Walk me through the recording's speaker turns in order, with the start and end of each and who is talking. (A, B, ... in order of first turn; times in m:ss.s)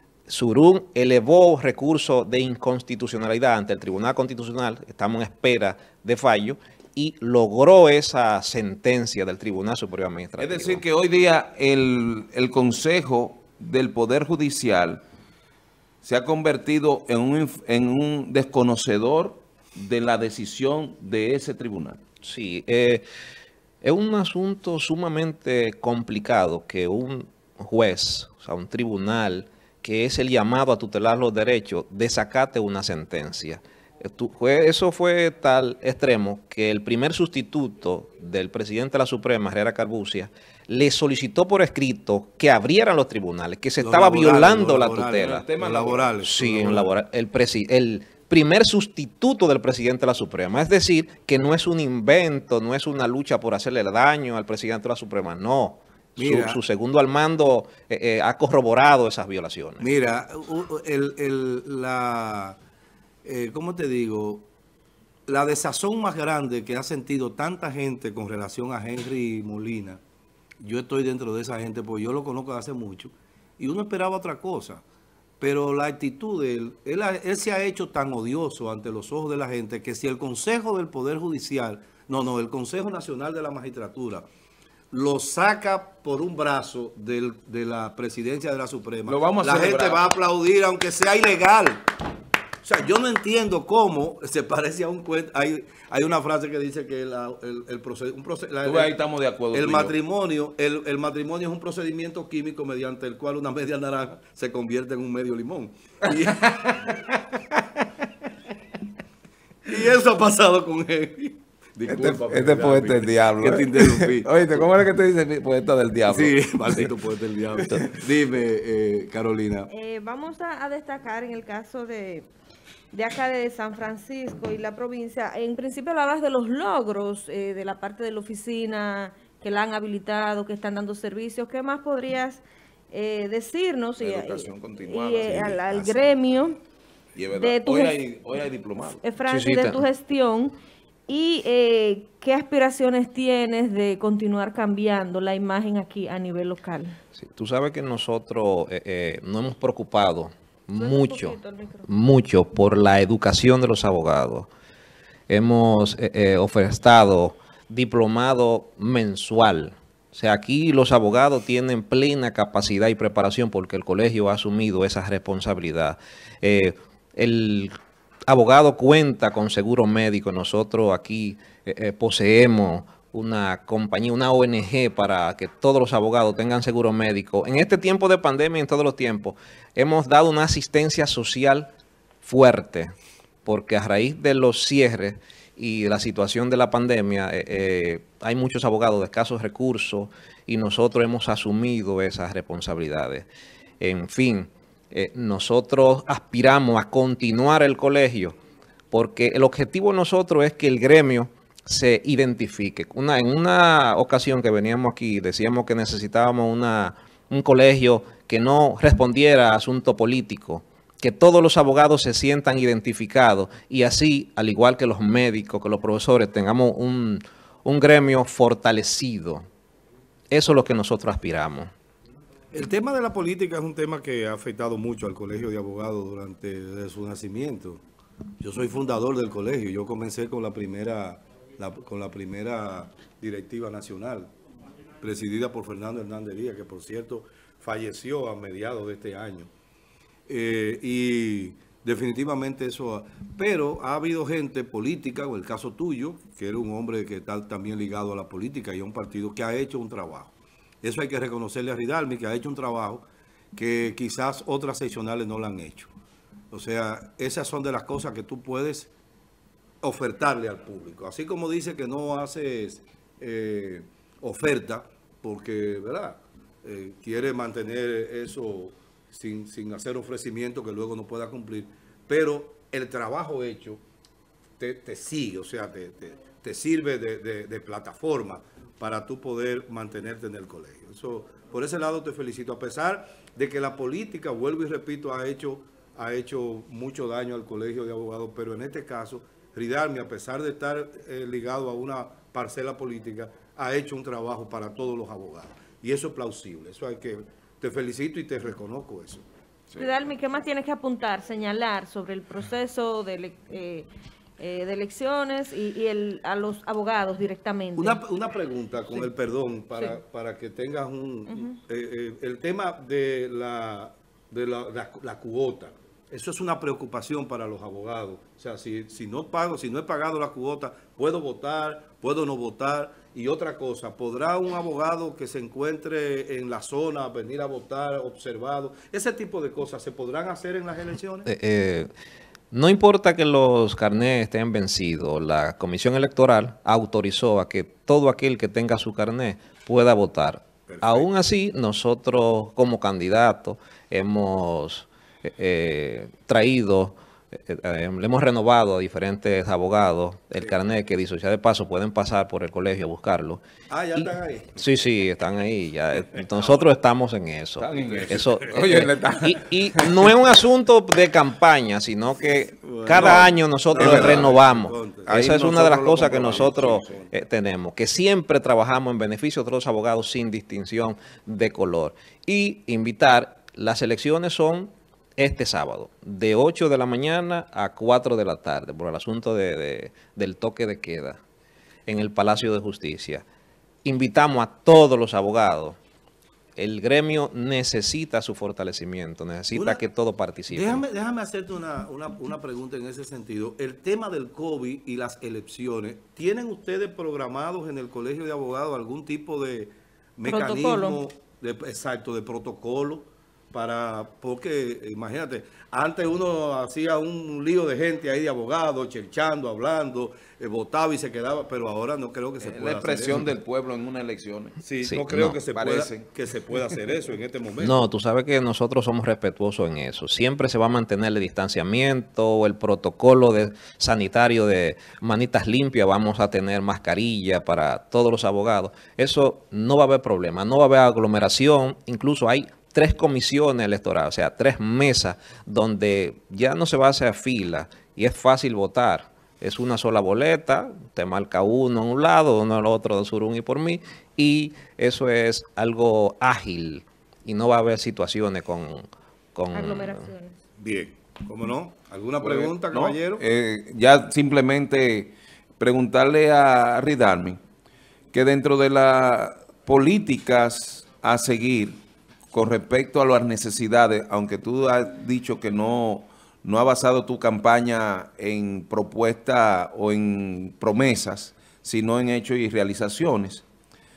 0:00.3-0:10.8 A
0:10.4-0:15.0 B
0:16.0-0:22.0 B
0:22.2-0:23.0 A
0:23.8-0:45.5 A
0:43.8-0:46.9 C
0:45.1-0:46.1 B
0:46.2-0:59.8 A
0:56.2-0:56.6 C
0:59.8-1:02.6 C
1:03.2-1:04.5 C
1:05.3-1:10.0 C
1:10.6-1:14.8 C
1:15.4-1:24.2 C
1:24.9-1:31.8 C
1:29.1-1:30.0 B
1:32.6-1:38.9 C
1:38.6-1:39.9 B
1:39.5-1:46.8 C
1:49.6-1:54.7 C
1:51.9-1:56.9 B
1:56.1-1:59.7 C
1:59.7-2:02.3 D
2:02.9-2:16.6 D
2:14.0-2:16.0 B
2:17.2-2:19.0 B
2:17.4-2:18.0 D
2:19.0-2:20.6 D
2:19.3-2:19.8 A
2:21.1-2:27.0 D
2:27.2-2:31.4 A
2:30.8-2:31.9 D
2:31.9-2:34.5 A
2:35.3-2:47.7 A
2:48.3-3:01.7 A
3:02.2-3:02.9 A
3:03.4-3:13.3 A
3:13.8-3:18.4 A
3:18.9-3:39.4 A
3:40.3-3:41.7 A
3:42.5-3:47.8 C
3:48.4-3:54.3 C
3:55.0-3:59.5 C
4:00.3-4:13.0 C
4:13.6-4:15.9 C
4:16.5-4:18.9 C
4:19.8-4:33.8 C
4:34.6-4:59.2 C
4:59.8-5:08.0 D
5:07.8-5:31.3 C
5:11.3-5:11.6 D
5:31.3-5:31.9 A
5:32.5-5:53.4 A
5:40.7-5:41.1 C
5:53.7-5:54.6 C
5:53.9-6:21.2 A
5:57.6-6:00.2 B
6:02.6-6:05.2 C
6:03.0-6:04.3 B
6:05.1-6:07.0 B
6:21.9-6:23.2 A
6:23.8-6:25.8 A
6:26.6-6:30.8 A
6:29.5-6:29.8 C
6:30.5-6:53.2 C
6:40.2-6:41.0 D
6:52.4-6:54.6 B
6:54.6-6:57.8 C
6:54.8-6:55.4 A
6:55.5-6:56.1 B
6:57.6-7:30.1 A
7:29.5-7:30.4 D
7:30.6-7:33.2 C
7:32.2-7:37.4 B
7:38.1-7:41.8 B
7:42.3-7:53.4 B